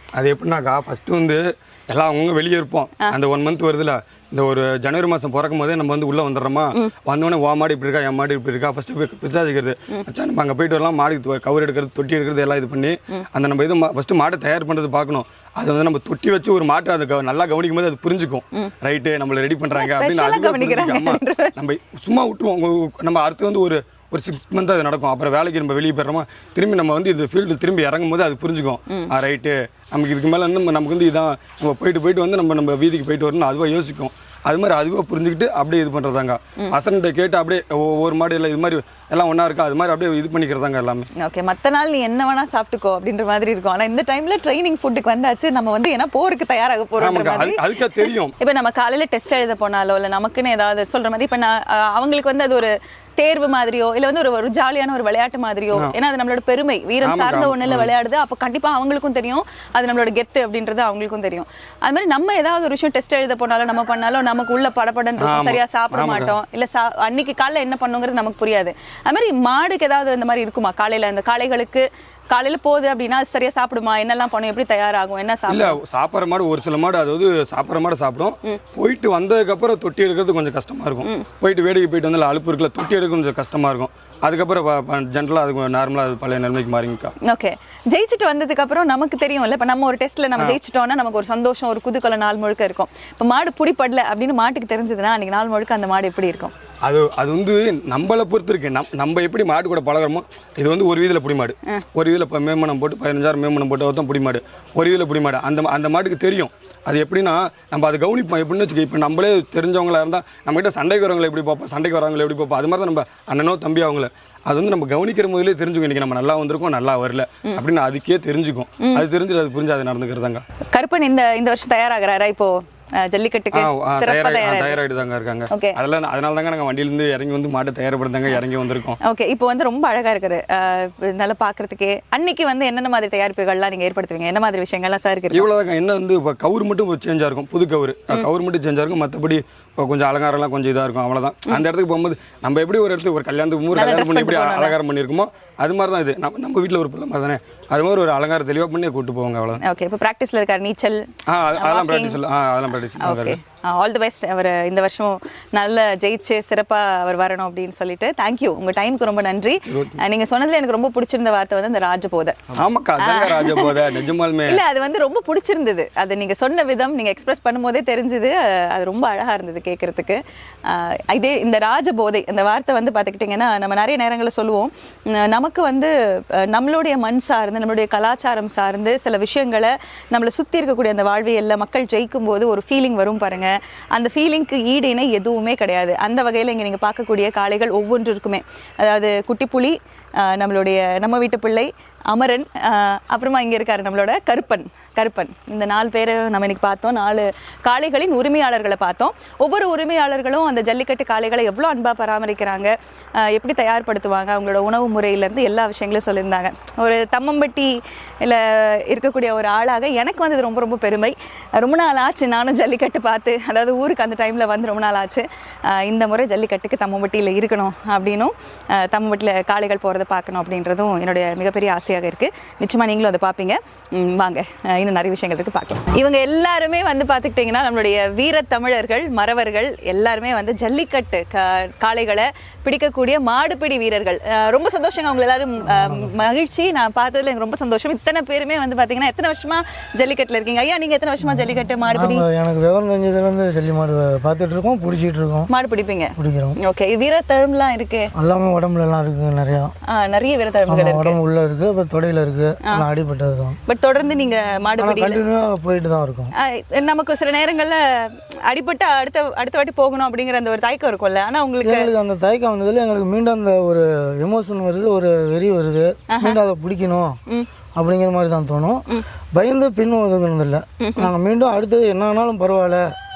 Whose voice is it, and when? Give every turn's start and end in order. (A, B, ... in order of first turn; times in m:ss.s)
0:00.2-0:41.1 A
0:19.8-0:21.6 B
0:41.2-1:15.8 B
0:47.0-0:48.3 A
0:57.0-0:57.9 A
1:05.2-1:06.3 A
1:15.5-1:27.1 A
1:27.2-1:36.5 B
1:36.8-2:00.4 A
2:00.7-2:04.8 B
2:03.5-2:09.0 A
2:05.5-2:05.8 B
2:09.0-2:15.4 B
2:15.3-2:29.6 A
2:23.7-2:24.8 B
2:29.6-2:32.2 B
2:31.3-2:33.4 A
2:33.0-2:42.4 B
2:39.6-2:40.0 A
2:42.5-2:44.6 A
2:43.0-2:43.8 B
2:44.5-2:55.9 B
2:56.5-4:02.2 B
3:55.7-3:56.1 C
4:01.9-4:05.5 C
4:05.5-4:08.1 B
4:06.2-4:06.6 C
4:08.2-4:09.7 C
4:09.9-4:11.2 B
4:10.7-4:13.6 C
4:13.7-4:15.2 B
4:14.8-4:16.3 C
4:16.4-4:21.9 B
4:21.6-4:27.2 C
4:26.1-4:26.4 B
4:27.8-4:32.9 C
4:30.8-4:31.1 B